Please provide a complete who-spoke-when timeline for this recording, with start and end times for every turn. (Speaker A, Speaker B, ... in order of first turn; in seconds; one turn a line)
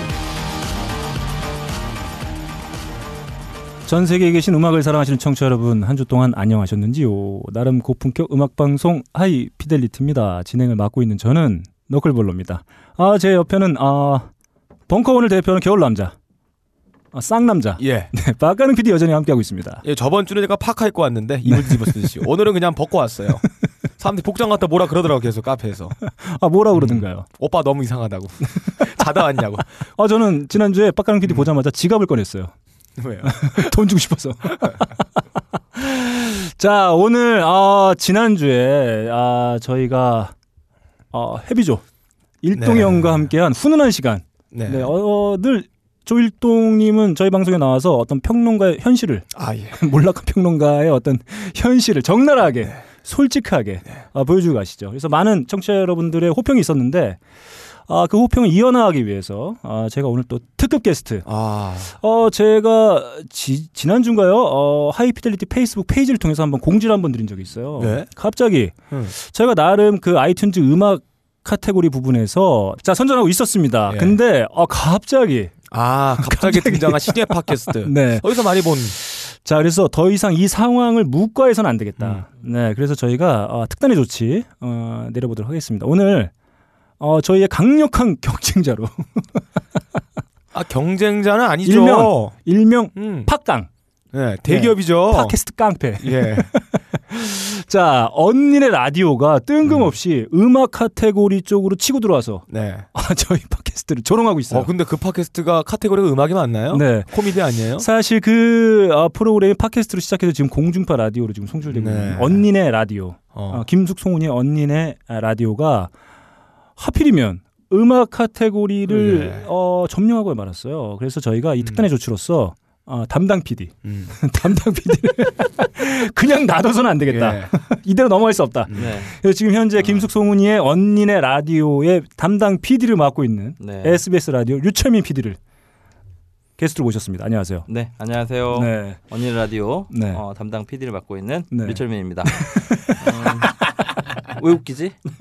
Speaker A: 3.9-14.3
Speaker A: 14.9-16.1
Speaker A: 17.1-19.8
Speaker B: 17.8-18.1
Speaker B: 19.8-23.4
Speaker A: 21.5-22.2
Speaker B: 24.0-25.9
Speaker A: 26.1-27.3
Speaker B: 26.7-29.6
Speaker A: 30.0-32.5
Speaker B: 33.0-33.7
Speaker A: 33.2-34.9
Speaker A: 35.8-40.3
Speaker A: 41.1-41.8
Speaker A: 42.4-57.2
Speaker B: 42.5-43.3
Speaker B: 44.5-44.9
Speaker B: 49.4-49.8
Speaker A: 57.9-61.2
Speaker B: 61.2-61.9
Speaker A: 62.0-86.3
Speaker B: 67.8-68.1
Speaker B: 73.9-74.2
Speaker B: 75.7-79.0
Speaker B: 82.0-82.2
Speaker A: 87.0-89.4
Speaker B: 90.5-92.3
Speaker A: 91.6-93.7
Speaker B: 92.9-93.3
Speaker B: 94.1-95.3
Speaker A: 94.5-104.7
Speaker B: 96.0-96.5
Speaker B: 99.6-99.9
Speaker B: 102.5-102.9
Speaker B: 104.5-107.8
Speaker A: 106.7-107.2
Speaker A: 107.8-115.9
Speaker B: 111.7-112.4
Speaker B: 113.3-113.6
Speaker A: 116.8-135.4
Speaker B: 118.9-119.4
Speaker B: 123.8-124.1
Speaker B: 127.1-127.5
Speaker C: 128.7-129.1
Speaker C: 129.8-130.1
Speaker C: 133.6-134.0
Speaker A: 136.6-137.7
Speaker C: 137.7-143.5
Speaker A: 138.5-139.0
Speaker A: 139.9-140.2
Speaker A: 141.5-143.7
Speaker C: 144.3-145.0